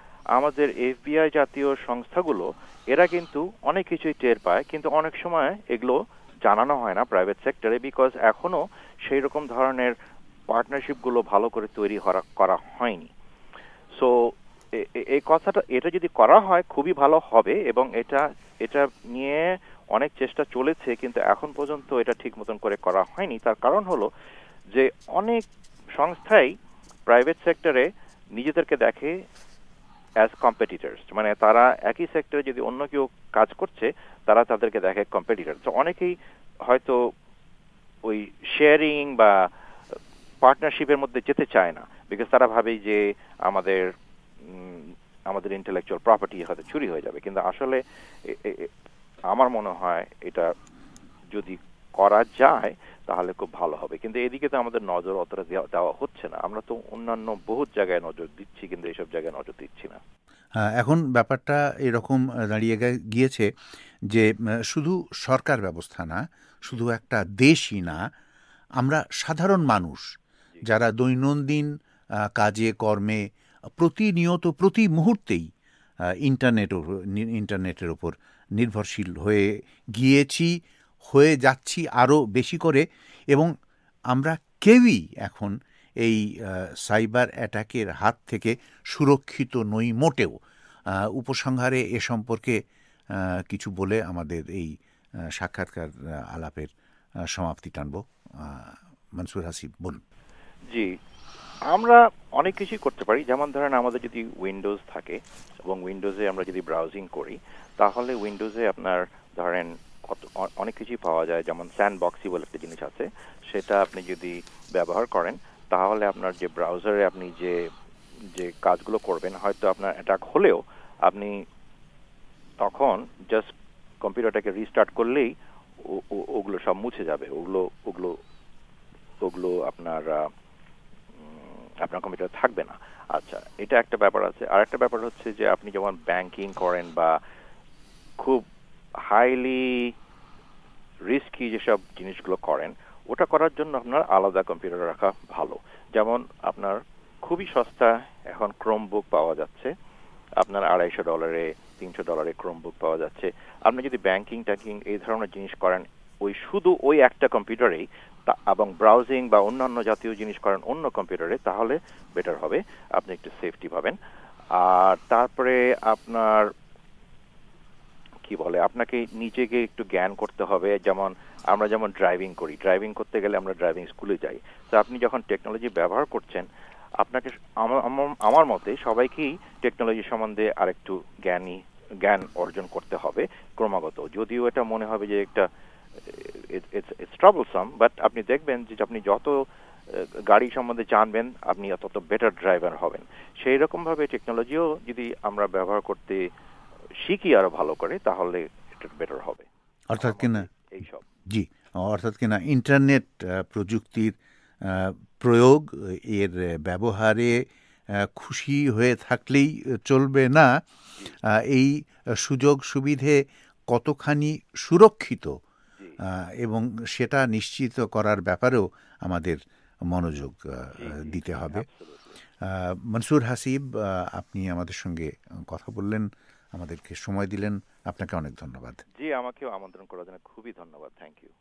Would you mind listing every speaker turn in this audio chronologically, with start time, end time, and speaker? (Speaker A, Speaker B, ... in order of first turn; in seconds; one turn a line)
Speaker A: 0.4-9.9
Speaker A: 10.5-13.1
Speaker A: 14.7-24.1
Speaker A: 24.7-25.4
Speaker A: 26.0-26.5
Speaker A: 27.1-29.2
Speaker A: 30.2-36.2
Speaker A: 36.7-37.0
Speaker A: 38.0-39.5
Speaker A: 40.4-43.9
Speaker A: 44.4-48.7
Speaker A: 49.3-50.5
Speaker A: 51.3-60.0
Speaker B: 60.8-63.5
Speaker B: 64.1-68.0
Speaker B: 68.8-70.1
Speaker B: 70.6-71.7
Speaker B: 72.3-73.2
Speaker B: 73.8-75.5
Speaker B: 76.2-80.5
Speaker B: 81.1-83.5
Speaker B: 84.1-90.4
Speaker B: 91.1-92.6
Speaker B: 93.5-94.7
Speaker B: 95.4-96.7
Speaker B: 97.3-100.0
Speaker A: 101.7-117.6
Speaker A: 118.3-121.4
Speaker A: 122.6-123.5
Speaker A: 124.0-128.2
Speaker A: 129.2-130.3
Speaker A: 131.2-137.2
Speaker A: 138.2-138.4
Speaker A: 139.0-139.9
Speaker A: 141.1-149.7
Speaker A: 150.4-164.0
Speaker A: 164.5-166.5
Speaker A: 168.3-176.5
Speaker A: 177.0-185.5
Speaker A: 186.0-189.4
Speaker A: 189.9-196.3
Speaker A: 197.0-199.5
Speaker B: 199.9-200.4
Speaker A: 200.0-201.0
Speaker B: 201.3-204.1
Speaker B: 204.7-207.3
Speaker B: 208.1-210.5
Speaker B: 211.4-213.2
Speaker B: 213.7-215.3
Speaker B: 216.4-219.4
Speaker B: 219.9-221.7
Speaker A: 220.8-222.2
Speaker B: 222.5-228.8
Speaker A: 229.0-231.3